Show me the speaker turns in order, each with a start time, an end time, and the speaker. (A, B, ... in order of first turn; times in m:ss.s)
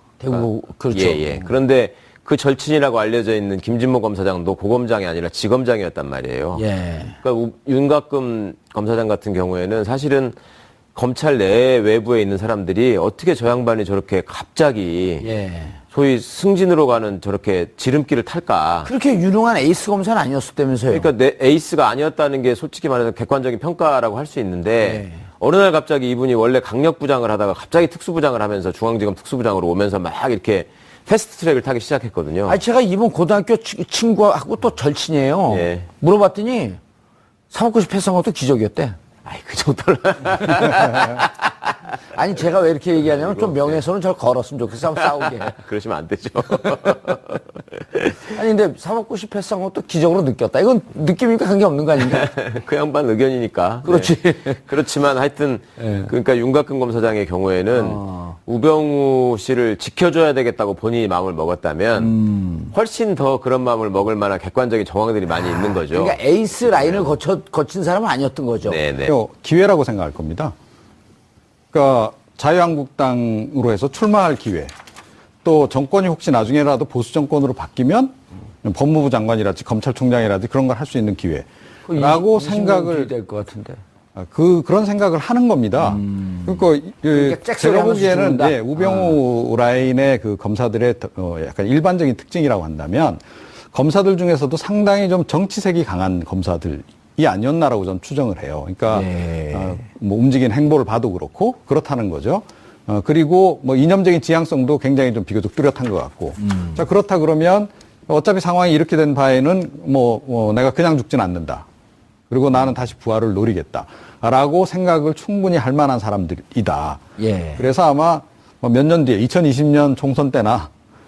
0:00.2-0:01.5 A
0:00.3-0:06.6 B
0:06.5-0:07.2 A
0:07.2-0:10.4 B
0:11.0-0:15.3 B
0:15.2-0:15.8 A
0:15.9-0:18.9 B
0:18.8-0:21.1 A
0:20.9-0:32.6 B
0:24.8-0:25.3 A
0:32.5-0:36.8 A
0:35.5-0:35.9 B
0:37.5-0:39.0 A
0:39.2-0:41.7 B
0:42.1-0:45.6 A
0:43.0-0:43.8 B
0:45.0-0:48.4 B
0:48.3-0:52.2 A
0:52.0-1:02.2 B
0:53.8-0:54.6 A
0:55.8-0:56.1 A
0:57.7-0:58.4 A
1:02.0-1:02.8 A
1:02.7-1:07.2 B
1:05.4-1:08.8 A
1:08.6-1:09.2 B
1:09.1-1:10.5 C
1:11.7-1:14.7 C
1:15.4-1:23.1 C
1:21.9-1:23.8 A
1:24.2-1:51.7 C
1:25.8-1:29.2 A
1:38.9-1:39.8 A
1:46.4-1:46.8 A
1:52.3-1:57.0 C
1:57.2-1:57.7 A
1:57.6-2:00.7 C